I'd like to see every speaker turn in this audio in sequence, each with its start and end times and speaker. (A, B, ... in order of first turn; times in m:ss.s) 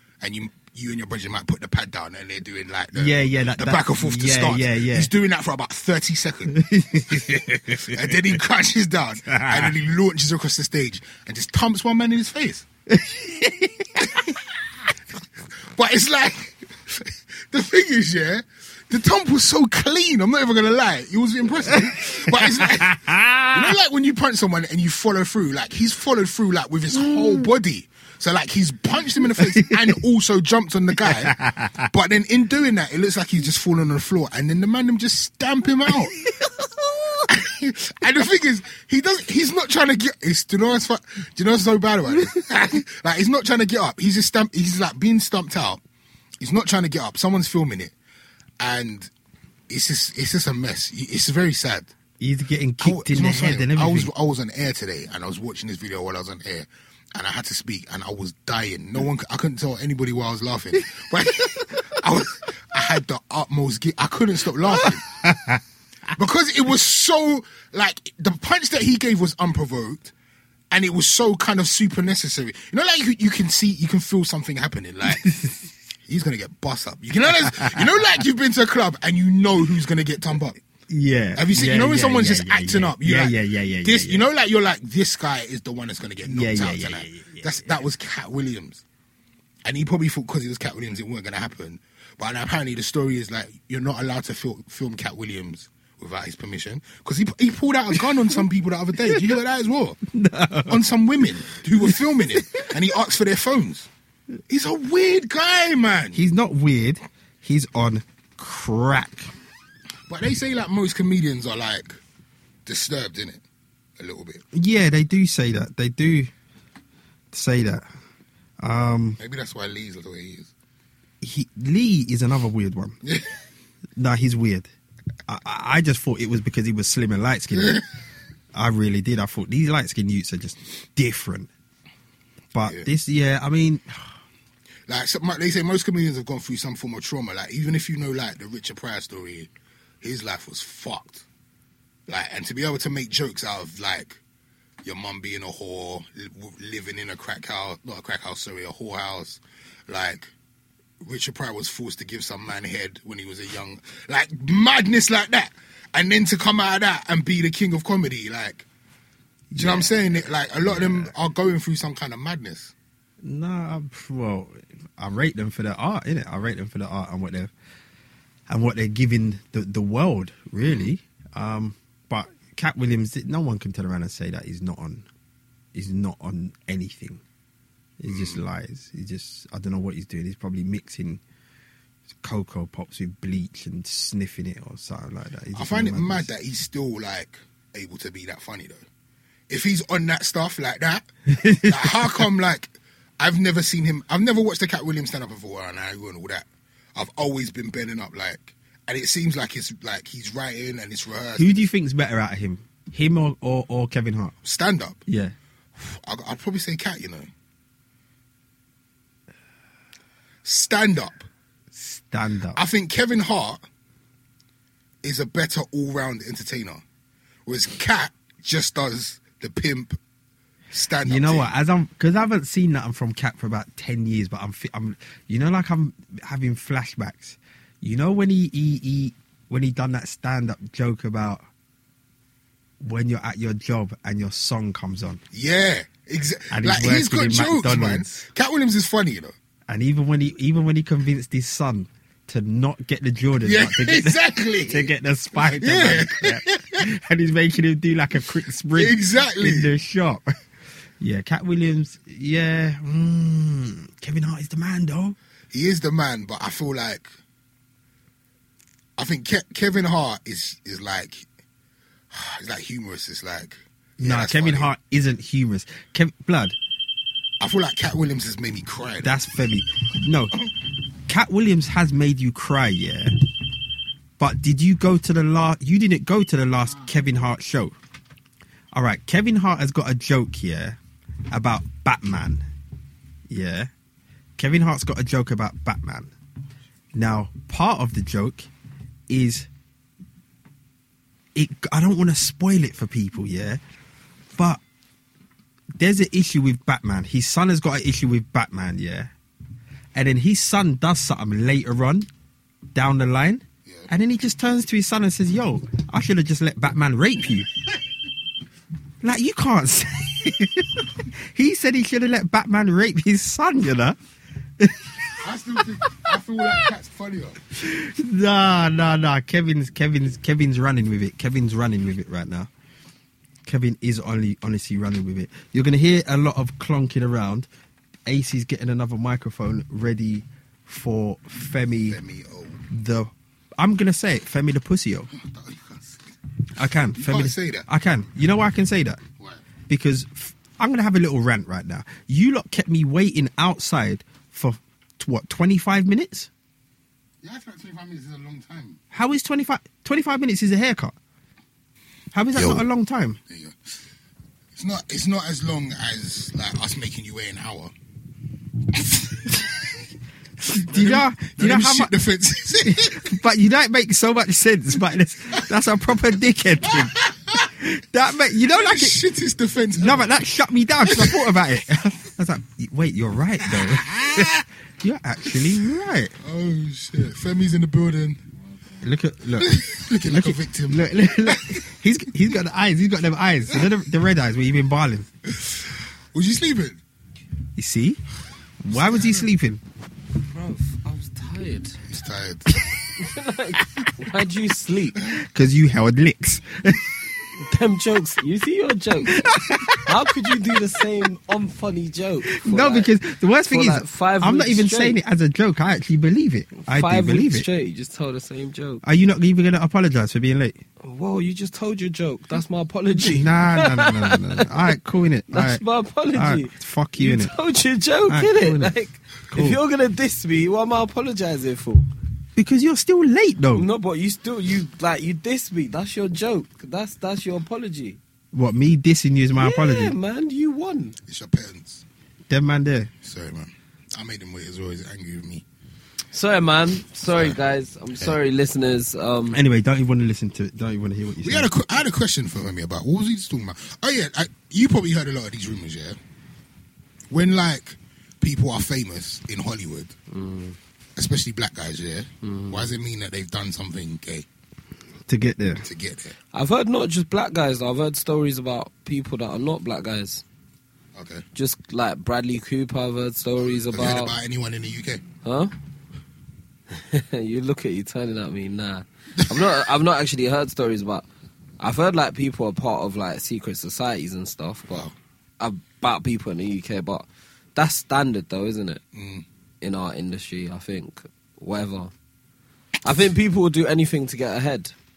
0:00.2-0:12.6 A
0:02.9-0:05.1 B
0:06.5-0:08.2 B
0:09.4-0:09.7 B
0:12.9-0:14.2 B
0:15.7-0:36.2 A
0:22.3-0:23.7 B
0:27.0-0:27.5 B
0:29.5-0:29.9 B
0:31.0-0:31.9 B
0:35.8-0:37.3 B
0:37.2-0:45.8 A
0:46.4-0:47.9 A
0:48.6-0:49.1 A
0:49.7-0:51.9 A
0:52.2-0:54.1 B
0:52.8-1:05.0 A
1:01.4-1:01.7 B
1:04.8-1:05.6 B
1:06.1-1:10.1 A
1:10.7-1:15.3 A
1:15.1-1:15.7 B
1:16.1-1:20.6 A
1:17.4-1:17.8 B
1:20.9-1:24.2 B
1:21.4-1:28.8 A
1:26.2-1:27.8 B
1:29.6-1:40.0 A
1:40.1-1:40.8 B
1:40.7-1:43.9 A
1:41.8-1:42.4 B
1:44.5-1:46.2 A
1:46.1-1:49.3 B
1:50.1-1:52.0 A
1:52.6-1:53.4 A
1:54.0-1:54.4 A
1:54.5-1:56.3 B
1:57.3-1:57.8 B
1:58.6-1:59.2 B
1:59.2-2:00.5 A
2:01.2-2:03.0 B
2:03.0-2:03.3 A
2:04.0-2:04.7 B
2:05.3-2:07.8 B
2:07.6-2:07.8 A
2:08.5-2:11.5 B
2:12.5-2:14.1 B
2:12.6-2:12.9 A
2:14.9-2:19.5 A
2:20.0-2:21.2 A
2:22.1-2:24.2 A
2:24.8-2:30.3 A
2:31.0-2:38.6 A
2:39.5-2:39.9 B
2:39.5-2:42.7 A
2:40.6-2:41.1 B
2:43.2-2:47.5 B
2:48.5-2:55.0 B
2:50.6-2:50.9 A
2:55.7-2:57.2 B
2:58.0-3:01.2 B
2:58.1-2:58.4 A
3:02.1-3:06.3 B
3:05.5-3:08.8 A
3:09.5-3:21.7 A
3:11.3-3:12.2 B
3:21.4-3:24.3 B
3:24.4-3:25.0 A
3:25.1-3:25.3 B
3:25.8-3:27.3 A
3:30.4-3:31.3 A
3:31.7-3:32.6 B
3:32.5-3:33.6 A
3:35.0-3:36.8 A
3:37.4-3:40.0 A
3:40.7-3:41.5 A
3:41.0-3:51.4 B
3:52.8-3:55.2 B
3:55.3-3:59.3 A
3:56.5-3:58.1 B
3:59.7-4:10.2 B
4:03.4-4:06.8 A
4:08.7-4:09.7 A
4:11.0-4:15.2 B
4:15.5-4:17.1 A
4:19.0-4:21.3 A
4:22.1-4:24.7 A
4:24.0-4:26.6 B
4:27.4-4:29.2 A
4:29.0-4:30.3 B
4:31.1-4:33.1 B
4:34.2-4:37.7 B
4:38.7-4:40.8 B
4:41.3-4:42.4 B
4:43.3-4:43.7 B
4:44.4-4:46.1 B
4:46.9-4:48.5 B
4:49.1-4:49.5 B
4:51.3-4:53.6 B
4:54.3-4:54.6 B
4:55.8-4:59.1 B
4:59.9-5:02.1 B
5:02.7-5:07.5 B
5:09.0-5:14.0 B
5:14.6-5:16.1 B
5:15.2-5:17.4 A
5:17.5-5:22.5 B
5:23.4-5:27.5 B
5:28.1-5:32.0 B
5:31.8-5:32.6 A
5:32.7-5:35.1 B
5:35.1-5:36.0 A
5:36.5-5:39.0 B
5:36.9-5:37.7 A
5:39.7-5:46.3 B
5:47.2-5:48.8 A
5:48.9-5:50.9 B
5:52.1-5:53.2 B
5:52.3-5:52.6 A
5:53.3-5:53.7 A
5:54.5-5:57.7 A
5:58.8-5:59.5 A
6:00.5-6:01.9 B
6:00.5-6:03.2 A
6:02.6-6:09.0 B
6:06.7-6:07.5 A
6:08.5-6:10.1 A
6:09.8-6:16.1 B
6:10.8-6:11.4 A
6:13.5-6:14.4 A
6:16.2-6:18.2 A
6:18.8-6:25.1 B
6:19.4-6:21.7 A
6:25.3-6:26.8 A
6:27.6-6:28.0 B
6:28.6-6:29.6 B
6:28.7-6:29.3 A
6:30.2-6:31.8 C
6:31.9-6:33.1 A
6:33.0-6:35.0 C
6:35.1-6:37.0 B
6:37.4-6:42.9 C
6:39.0-6:40.2 B
6:42.3-6:47.4 B
6:43.5-6:45.0 C
6:46.7-6:48.8 C
6:48.8-6:50.6 B
6:50.8-6:54.7 C
6:53.0-6:55.6 B
6:55.3-7:01.9 C
6:56.1-6:57.3 B
6:58.1-6:58.7 B
6:59.3-6:59.6 B
7:02.4-7:03.7 B
7:03.6-7:08.0 C
7:08.3-7:10.0 B
7:09.4-7:11.0 C
7:11.0-7:11.8 A
7:12.3-7:12.9 B
7:13.0-7:15.4 A
7:16.1-7:19.4 C
7:17.1-7:17.4 A
7:19.3-7:21.5 B
7:21.2-7:26.0 A
7:27.1-7:29.9 A
7:30.1-7:30.6 C
7:31.0-7:34.3 A
7:32.2-7:32.7 C
7:35.1-7:35.7 B
7:35.6-7:36.1 A
7:36.3-7:40.2 C
7:40.9-7:41.2 A
7:41.3-7:44.1 C
7:43.7-7:45.0 A
7:45.2-7:45.5 C
7:46.7-7:51.0 C
7:51.6-7:54.8 C
7:55.4-7:58.8 C
7:58.9-7:59.2 A
7:59.6-8:01.9 C
8:02.8-8:04.7 C